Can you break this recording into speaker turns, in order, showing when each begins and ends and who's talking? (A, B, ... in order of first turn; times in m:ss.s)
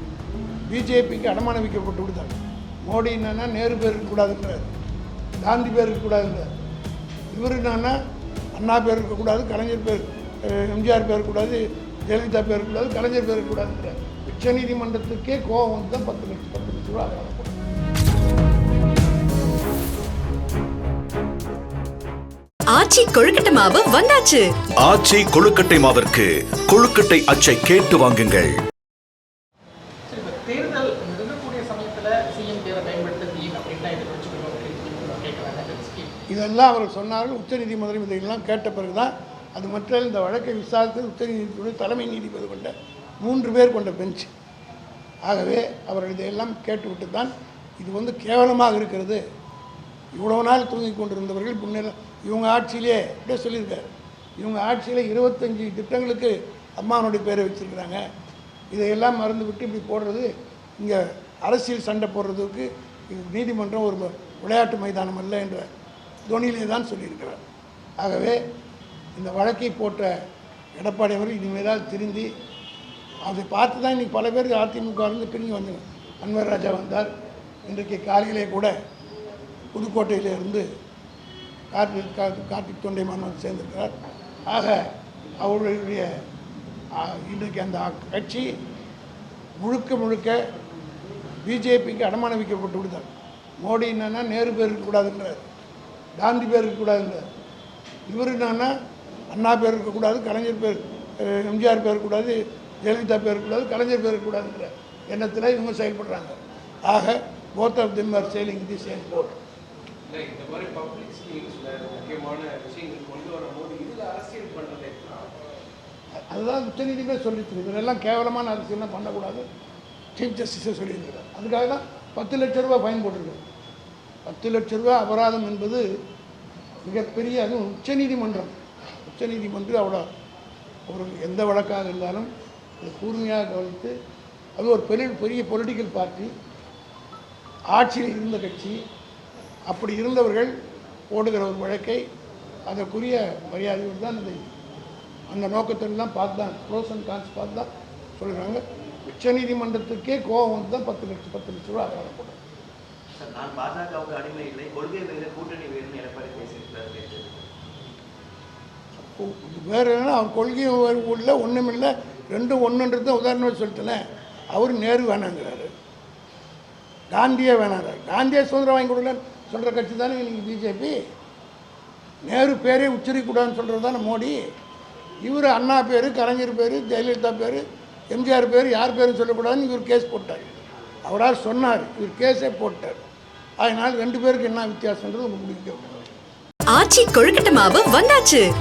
0:00.7-0:04.7 A
0:05.4-0:06.5 A
0:07.3-0:08.0 A
0:08.6-0:17.6 A
0:22.7-0:24.5 B
0:24.8-0:28.6 C
0:30.1-0:36.1 D
0:36.3-0:44.3 A
0:45.2-0:49.2 A
0:50.1-0:58.0 A
0:58.7-1:05.7 A
1:06.2-1:07.4 A
1:08.0-1:08.4 A
1:09.2-1:10.1 A
1:10.8-1:12.3 A
1:13.2-1:17.1 A
1:17.7-1:18.7 A
1:19.7-1:20.7 A
1:21.7-1:23.9 A
1:24.5-1:24.8 A
1:25.4-1:26.1 A
1:27.0-1:28.5 A
1:29.6-1:30.4 A
1:31.4-1:33.1 A
1:33.6-1:35.4 A
1:36.2-1:37.2 A
1:38.1-1:38.7 A
1:39.3-1:49.4 A
1:50.1-1:55.3 E
1:56.3-1:59.5 A
2:00.2-2:03.4 A
2:04.2-2:05.8 A
2:06.8-2:10.0 A
2:10.9-2:13.9 A
2:14.6-2:16.3 A
2:17.7-2:18.8 A
2:19.7-2:20.5 A
2:21.1-2:22.0 A
2:22.7-2:24.4 A
2:25.3-2:32.4 A
2:33.2-2:37.5 F
2:39.0-2:44.0 A
2:44.5-2:45.7 A
2:47.1-2:51.0 A
2:52.2-2:54.4 A
2:55.2-3:00.5 A
3:01.0-3:03.0 A
3:03.6-3:06.0 A
3:06.7-3:08.4 B